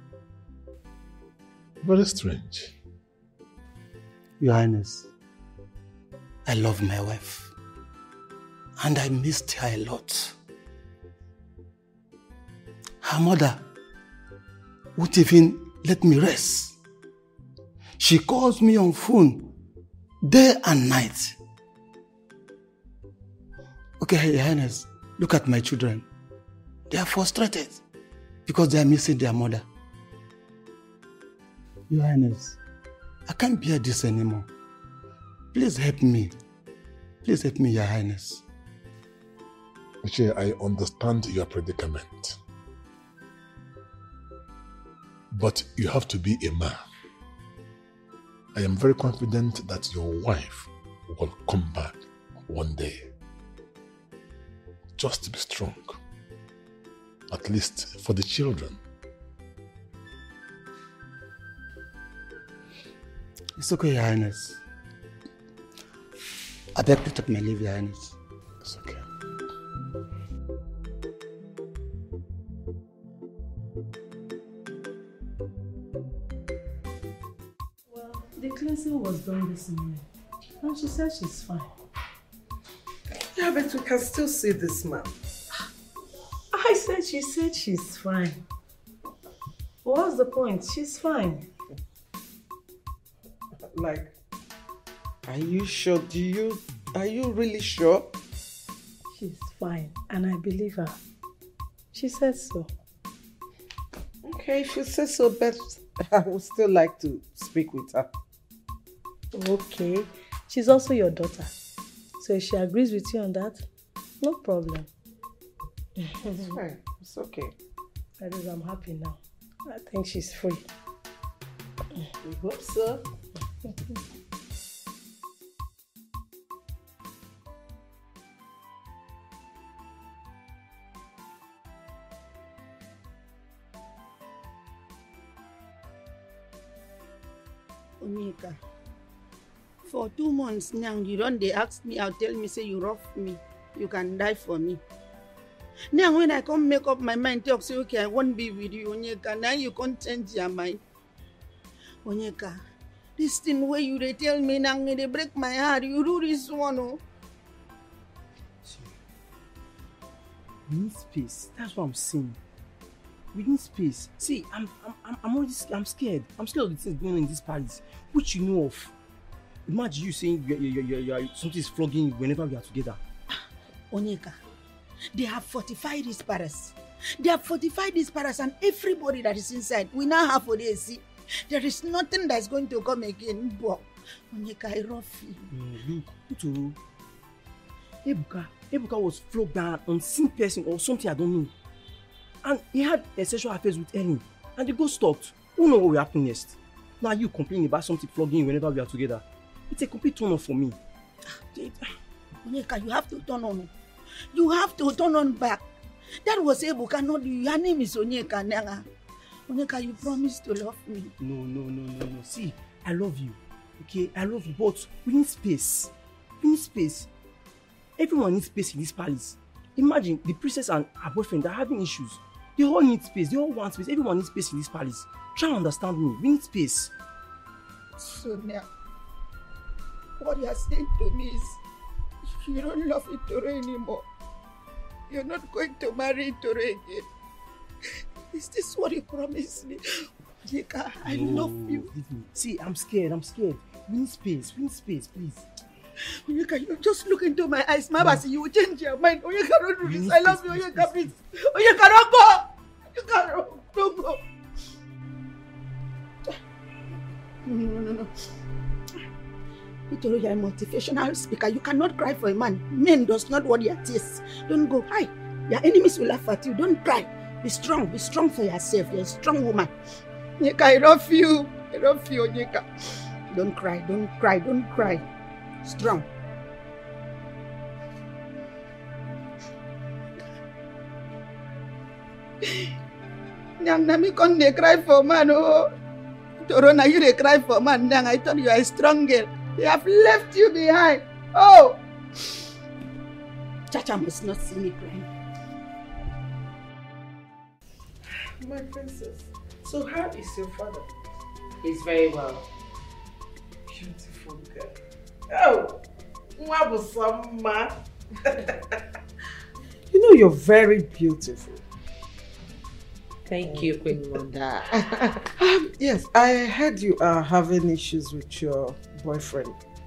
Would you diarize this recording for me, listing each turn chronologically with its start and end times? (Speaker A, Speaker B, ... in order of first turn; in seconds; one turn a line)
Speaker A: 1.8-2.7
Speaker B: 4.4-5.1
Speaker B: 6.5-7.5
Speaker B: 8.8-10.3
Speaker B: 13.0-13.6
Speaker B: 15.0-16.8
Speaker B: 18.0-19.5
Speaker B: 20.2-21.4
Speaker B: 24.0-26.1
Speaker B: 26.9-27.8
Speaker B: 28.5-29.6
Speaker B: 31.9-32.6
Speaker B: 33.3-34.5
Speaker B: 35.5-36.4
Speaker B: 37.2-38.4
Speaker A: 40.0-42.4
Speaker A: 45.3-46.8
Speaker A: 48.5-53.1
Speaker A: 55.0-56.0
Speaker A: 57.3-58.8
Speaker B: 63.6-64.6
Speaker B: 66.8-68.2
Speaker A: 68.6-69.0
Speaker C: 77.9-80.0
Speaker C: 80.6-81.7
Speaker D: 83.3-85.1
Speaker C: 86.5-88.4
Speaker C: 89.8-91.5
Speaker D: 93.6-94.1
Speaker D: 95.3-98.1
Speaker C: 99.2-101.0
Speaker C: 101.9-102.7
Speaker D: 104.2-108.1
Speaker C: 109.3-111.5
Speaker C: 112.2-113.7
Speaker C: 114.2-114.9
Speaker C: 116.0-116.6
Speaker D: 116.2-117.5
Speaker C: 118.2-120.7
Speaker D: 122.2-123.0
Speaker E: 138.0-138.6
Speaker E: 139.8-144.8
Speaker E: 145.9-150.8
Speaker E: 152.1-152.6
Speaker E: 153.2-157.0
Speaker F: 160.7-162.4
Speaker F: 163.3-168.9
Speaker F: 169.7-173.0
Speaker E: 173.9-174.3
Speaker E: 175.1-185.5
Speaker F: 185.5-186.8
Speaker F: 188.0-191.5
Speaker F: 192.4-200.8
Speaker E: 202.4-203.7
Speaker E: 204.3-205.6
Speaker E: 206.2-208.9
Speaker E: 209.5-211.1
Speaker F: 211.2-217.1
Speaker F: 218.0-226.9
Speaker E: 228.0-228.7
Speaker E: 230.2-231.6
Speaker E: 232.2-234.1
Speaker E: 235.1-237.1
Speaker E: 238.3-239.8
Speaker E: 240.4-241.9
Speaker F: 241.0-245.5
Speaker E: 246.2-254.2
Speaker F: 249.8-251.2
Speaker E: 257.4-258.1
Speaker E: 259.9-269.7
Speaker E: 270.4-272.7
Speaker E: 273.3-275.0
Speaker E: 275.6-276.1
Speaker E: 283.6-285.6
Speaker E: 286.4-291.8
Speaker E: 293.7-295.1
Speaker D: 298.1-300.9
Speaker G: 301.6-302.5
Speaker D: 303.7-304.8
Speaker D: 305.3-305.8
Speaker D: 306.4-307.7
Speaker D: 308.2-308.5
Speaker D: 309.9-311.6
Speaker G: 313.3-314.8
Speaker D: 314.7-319.6